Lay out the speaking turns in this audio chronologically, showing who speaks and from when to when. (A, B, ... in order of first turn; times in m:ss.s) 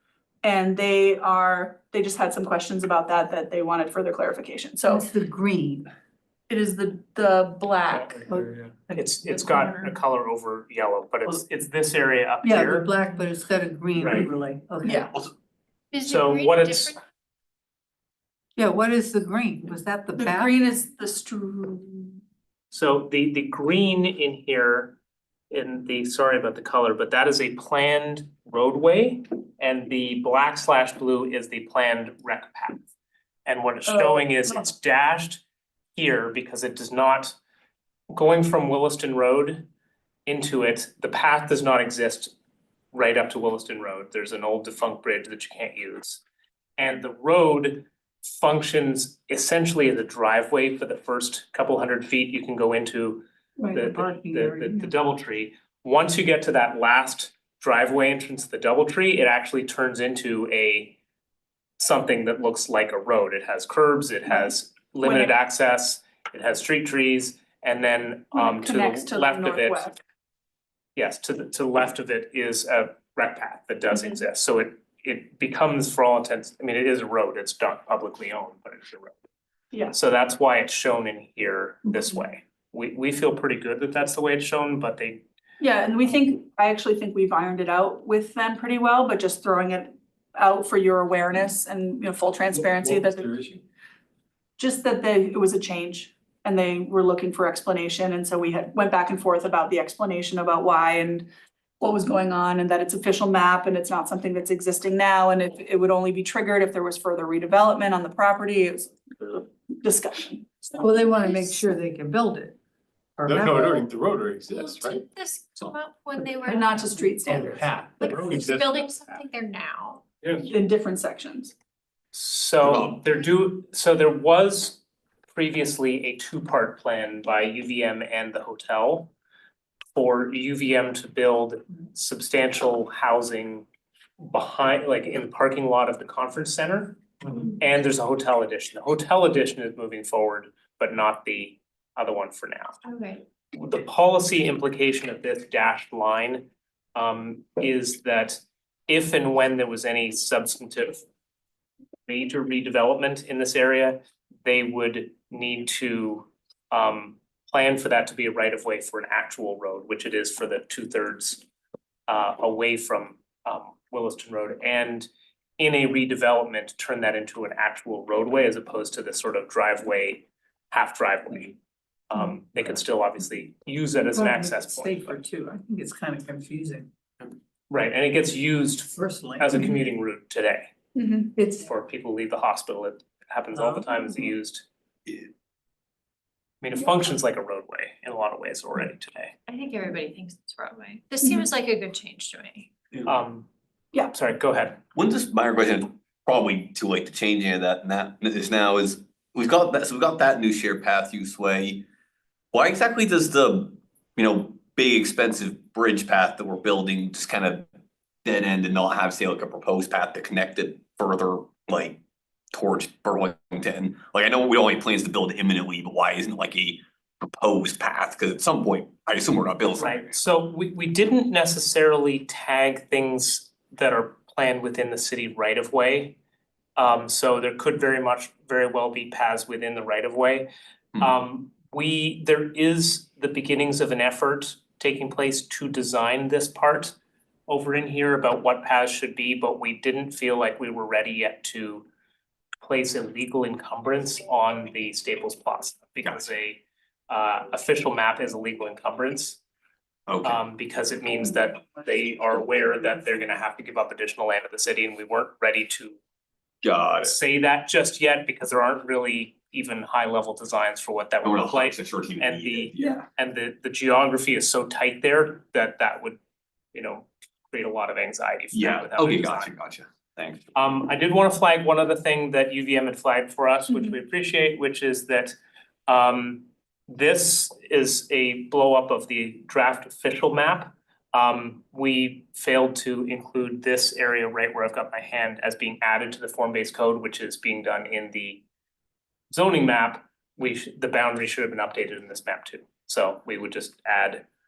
0:00.4-0:05.1 A
0:04.9-0:05.9 B
0:06.5-0:08.2 A
0:08.9-0:09.9 A
0:09.0-0:12.9 C
0:12.4-0:15.1 B
0:14.0-0:14.3 C
0:14.8-0:15.1 A
0:15.9-0:17.0 D
0:16.0-0:17.0 C
0:18.6-0:20.5 B
0:20.2-0:22.2 A
0:22.7-0:25.0 C
0:25.5-0:32.8 C
0:33.5-0:35.4 C
0:33.9-0:34.3 A
0:36.0-0:37.4 C
0:38.1-0:39.7 C
0:40.3-0:42.3 C
0:42.9-0:46.2 C
0:46.8-1:01.0 C
0:53.7-0:54.9 B
1:01.8-1:09.9 C
1:05.0-1:05.4 A
1:08.3-1:10.0 A
1:11.0-1:19.2 C
1:19.7-1:20.0 A
1:19.9-1:25.2 C
1:25.6-1:33.4 A
1:32.5-1:33.6 E
1:34.6-1:41.3 A
1:41.8-1:50.8 A
1:50.8-1:52.6 B
1:53.2-1:53.9 B
1:53.2-1:55.0 E
1:54.5-1:56.8 D
1:56.4-1:57.7 A
1:57.2-1:59.2 E
1:58.0-2:00.0 D
2:00.5-2:01.5 A
2:02.1-2:04.8 C
2:02.6-2:03.1 F
2:05.3-2:09.1 C
2:10.0-2:13.7 C
2:14.2-2:22.8 C
2:22.8-2:23.2 D
2:23.5-2:31.0 C
2:32.1-2:41.4 C
2:42.1-2:51.6 C
2:52.1-2:55.2 C
2:54.1-2:56.9 B
2:57.7-3:00.7 C
2:59.0-2:59.6 B
3:01.0-3:01.3 A
3:01.4-3:01.7 B
3:01.6-3:04.6 C
3:06.6-3:09.4 C
3:09.5-3:12.7 D
3:13.0-3:13.5 C
3:14.1-3:14.8 C
3:15.0-3:21.8 F
3:22.5-3:27.6 F
3:28.2-3:32.0 F
3:32.5-3:40.2 F
3:39.8-3:46.2 C
3:46.8-3:50.5 C
3:51.0-3:57.0 C
3:57.5-4:01.9 C
4:02.6-4:09.4 C
4:10.1-4:10.4 F
4:10.2-4:16.0 C
4:16.6-4:17.2 F
4:17.0-4:26.2 C
4:21.2-4:23.1 F
4:26.7-4:29.5 C
4:28.5-4:30.5 F
4:30.6-4:35.3 C
4:35.9-4:48.4 C
4:49.3-4:54.2 C